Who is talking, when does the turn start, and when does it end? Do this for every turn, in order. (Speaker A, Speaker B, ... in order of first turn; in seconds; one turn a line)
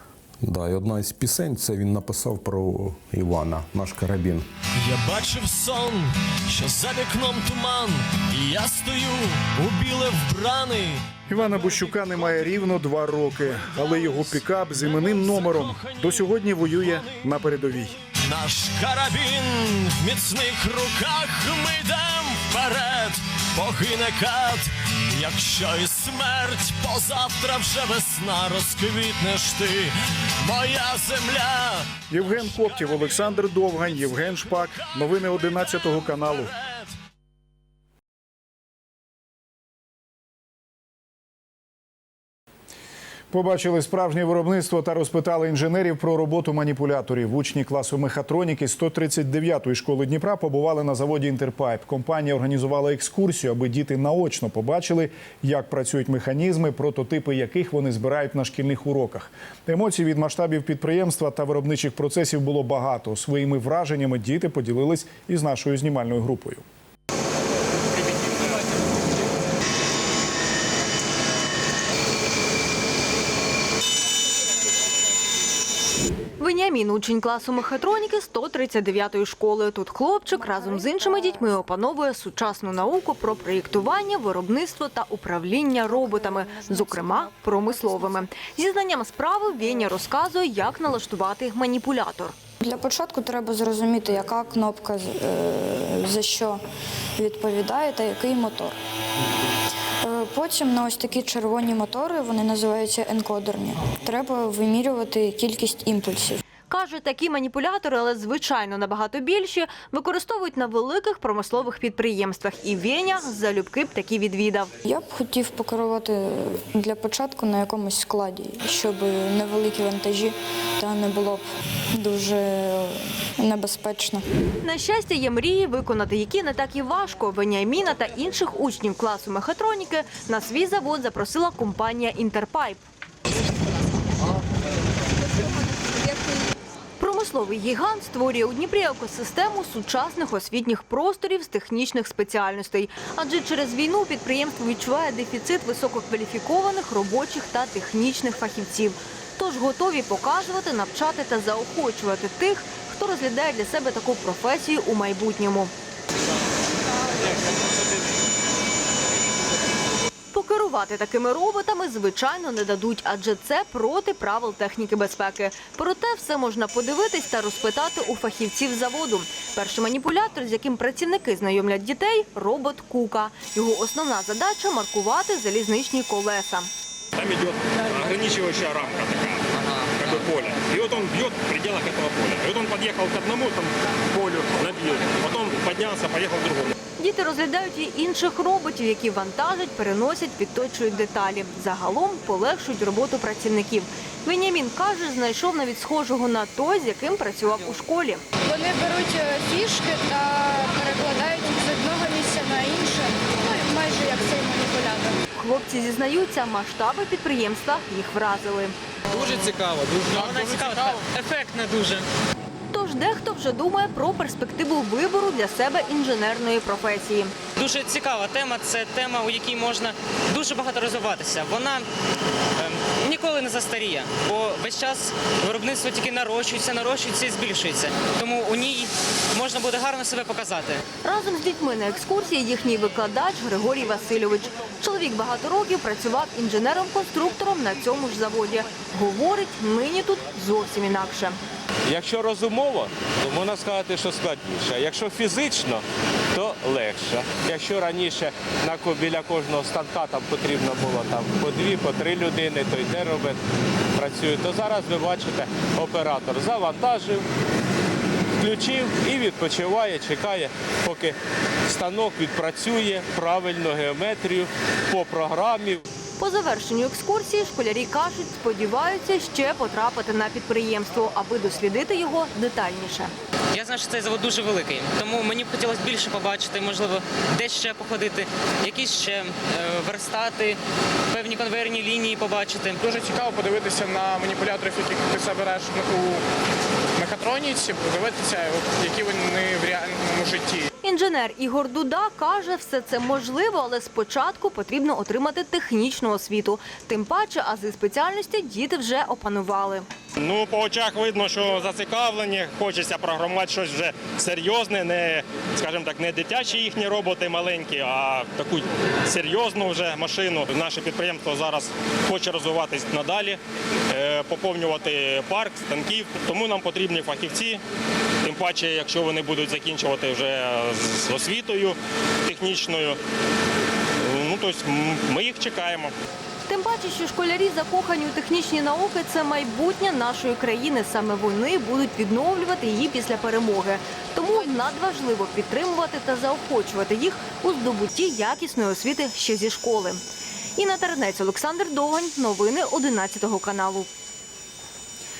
Speaker A: 0.4-4.5
Speaker B: 4.8-12.7
Speaker C: 11.3-18.0
Speaker B: 13.5-17.3
Speaker B: 18.1-36.9
Speaker C: 32.1-36.5
Speaker C: 43.3-66.6
Speaker D: 76.4-92.3
Speaker E: 80.4-81.5
Speaker E: 85.9-88.3
Speaker E: 92.6-96.6
Speaker E: 97.2-98.8
Speaker E: 100.0-106.4
Speaker D: 106.7-114.7
Speaker E: 114.8-124.2
Speaker D: 124.6-132.8
Speaker D: 137.0-155.7
Speaker D: 160.3-176.7
Speaker F: 177.2-186.7
Speaker D: 187.0-198.2
Speaker G: 198.4-205.2
Speaker D: 205.4-208.7
Speaker H: 209.1-212.1
Speaker I: 210.1-211.0
Speaker D: 212.7-217.3
Speaker H: 217.6-221.9
Speaker H: 222.6-230.8
Speaker D: 231.0-241.4
Speaker J: 241.9-253.4
Speaker J: 253.9-257.2
Speaker J: 258.4-265.8
Speaker D: 266.2-273.1
Speaker H: 273.5-280.6
Speaker H: 281.1-282.8
Speaker I: 282.8-286.2
Speaker I: 286.9-290.7
Speaker D: 290.8-299.9
Speaker F: 300.2-313.4
Speaker F: 313.9-317.6
Speaker F: 318.2-323.0
Speaker F: 324.0-325.9
Speaker D: 326.5-340.0
Speaker D: 340.6-343.9